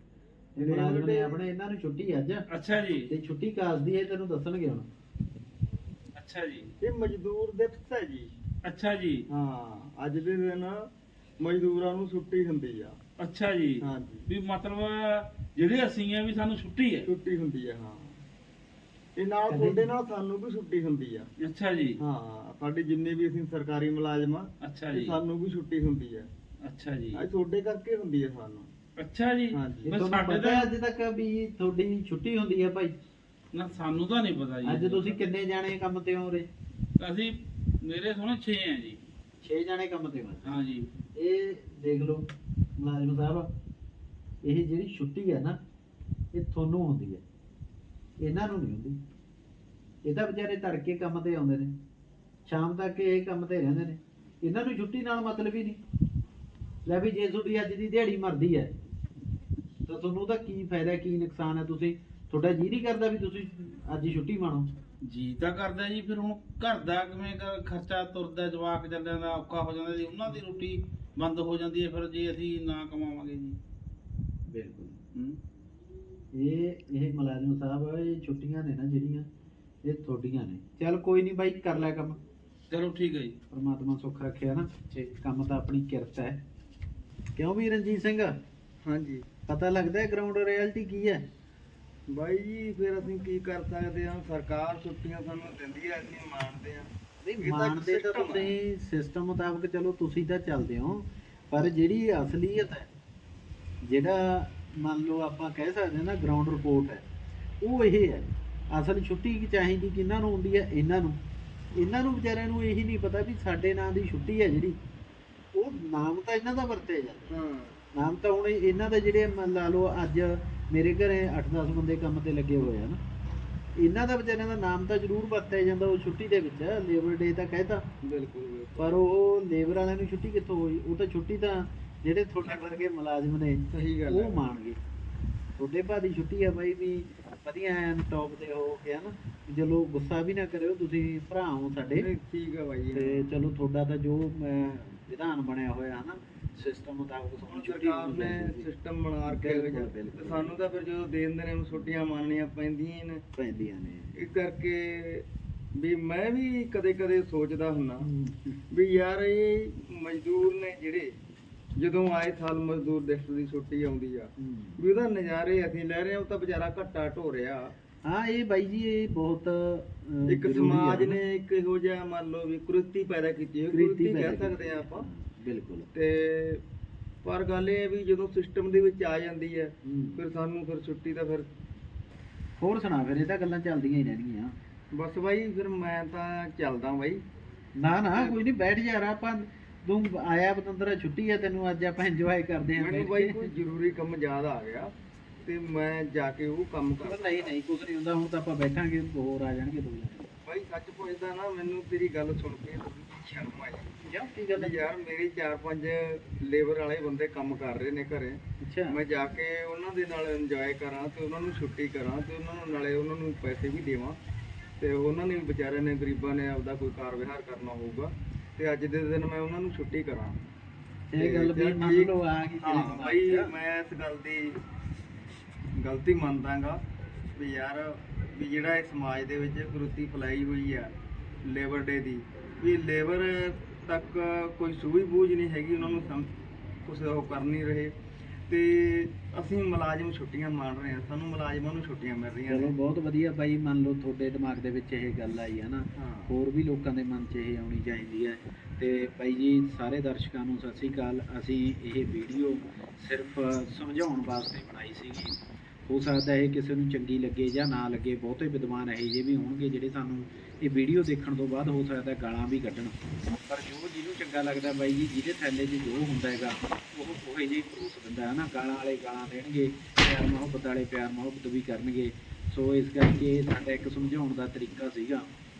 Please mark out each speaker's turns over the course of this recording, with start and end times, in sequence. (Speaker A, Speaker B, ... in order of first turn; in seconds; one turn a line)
Speaker A: 0.6-2.5
Speaker B: 0.6-1.4
Speaker C: 2.5-3.1
Speaker A: 3.0-4.9
Speaker C: 6.2-6.7
Speaker B: 6.8-8.3
Speaker C: 8.6-9.2
Speaker B: 9.3-10.8
Speaker B: 11.4-13.0
Speaker C: 13.2-17.1
Speaker B: 13.8-14.3
Speaker B: 17.0-18.2
Speaker B: 19.2-21.3
Speaker A: 19.5-19.9
Speaker C: 21.4-22.0
Speaker B: 22.0-26.3
Speaker C: 24.6-25.2
Speaker C: 26.6-27.2
Speaker B: 27.1-28.7
Speaker C: 29.0-30.7
Speaker B: 29.5-30.0
Speaker A: 29.9-33.0
Speaker C: 33.5-35.2
Speaker A: 34.6-36.5
Speaker C: 37.0-39.0
Speaker A: 39.4-40.6
Speaker C: 40.5-40.9
Speaker A: 41.1-43.5
Speaker A: 44.4-45.6
Speaker A: 46.3-47.2
Speaker A: 48.2-49.0
Speaker A: 50.0-51.7
Speaker A: 52.5-55.8
Speaker A: 56.9-58.7
Speaker A: 59.9-64.7
Speaker C: 65.1-73.6
Speaker A: 74.5-75.0
Speaker A: 76.3-79.3
Speaker A: 79.8-82.2
Speaker C: 82.7-83.4
Speaker A: 83.5-86.4
Speaker A: 87.4-88.3
Speaker B: 88.8-89.3
Speaker A: 89.5-91.2
Speaker B: 92.1-96.9
Speaker A: 97.2-102.9
Speaker B: 97.4-98.5
Speaker A: 103.8-107.1
Speaker A: 107.6-111.2
Speaker A: 111.7-114.8
Speaker A: 115.5-117.3
Speaker B: 117.3-117.8
Speaker A: 117.9-123.0
Speaker A: 123.8-127.8
Speaker B: 128.0-129.0
Speaker A: 128.8-134.8
Speaker B: 133.7-134.4
Speaker A: 135.6-142.1
Speaker B: 141.9-143.3
Speaker A: 142.9-148.7
Speaker B: 147.5-153.2
Speaker A: 149.2-150.6
Speaker A: 153.4-154.1
Speaker B: 154.2-158.1
Speaker A: 158.0-158.6
Speaker B: 158.7-161.1
Speaker B: 161.8-167.7
Speaker A: 164.4-164.8
Speaker A: 168.1-171.2
Speaker B: 170.3-175.1
Speaker A: 173.7-175.9
Speaker B: 175.9-176.6
Speaker B: 177.2-181.5
Speaker A: 179.8-180.2
Speaker A: 182.6-184.5
Speaker B: 184.9-187.2
Speaker A: 187.8-193.5
Speaker B: 188.1-188.4
Speaker B: 192.8-197.5
Speaker A: 197.0-200.3
Speaker B: 200.4-203.9
Speaker A: 204.1-204.8
Speaker B: 204.5-214.2
Speaker A: 208.6-209.0
Speaker B: 214.8-220.4
Speaker A: 221.1-223.5
Speaker B: 221.2-224.5
Speaker B: 225.8-226.8
Speaker B: 227.3-237.9
Speaker B: 238.5-242.7
Speaker A: 242.5-275.3
Speaker B: 246.0-246.3